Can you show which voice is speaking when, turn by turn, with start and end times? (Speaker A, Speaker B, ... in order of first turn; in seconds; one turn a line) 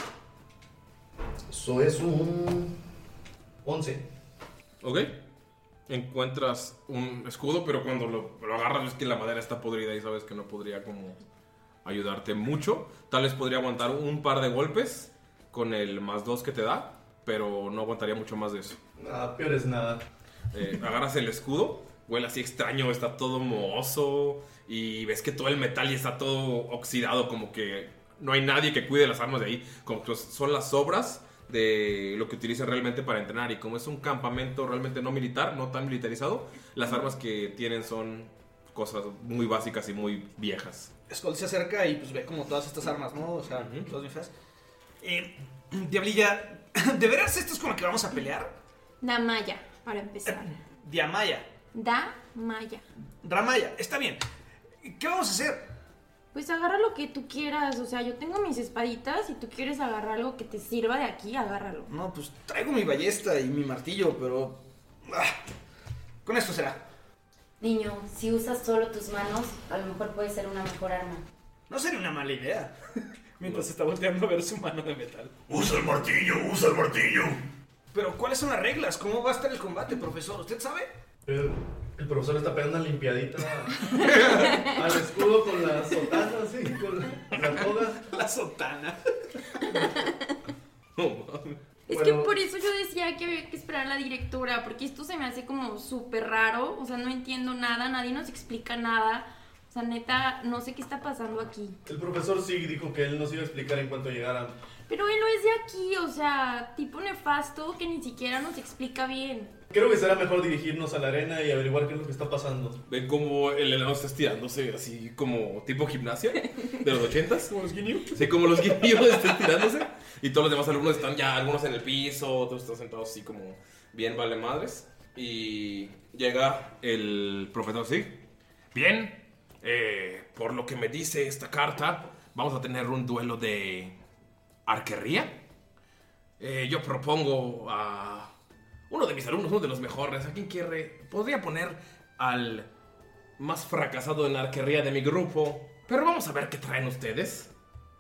Speaker A: 1.5-2.7
Speaker A: 3.6-4.1
Speaker B: 4.8-5.2
Speaker B: 5.9-11.2
Speaker B: 11.8-18.8
Speaker A: 19.0-20.0
Speaker B: 20.5-40.9
Speaker C: 41.1-44.3
Speaker B: 43.5-43.9
Speaker C: 45.0-48.5
Speaker D: 49.0-50.5
Speaker C: 50.3-51.5
Speaker D: 51.7-52.9
Speaker C: 53.2-54.2
Speaker C: 54.8-55.6
Speaker D: 56.3-61.9
Speaker C: 61.9-65.4
Speaker C: 66.2-66.8
Speaker E: 67.6-71.2
Speaker C: 71.7-72.8
Speaker C: 73.4-75.4
Speaker F: 75.5-77.4
Speaker C: 77.9-80.9
Speaker A: 81.3-88.0
Speaker C: 84.0-84.6
Speaker C: 88.0-89.0
Speaker B: 91.0-91.6
Speaker D: 91.9-101.8
Speaker A: 91.9-92.3
Speaker A: 101.9-104.5
Speaker D: 104.9-109.5
Speaker A: 109.7-112.8
Speaker B: 112.9-117.5
Speaker C: 117.5-118.2
Speaker B: 118.1-128.2
Speaker B: 128.7-133.9
Speaker B: 134.7-135.4
Speaker B: 136.4-138.3
Speaker B: 138.9-142.7
Speaker B: 143.4-147.5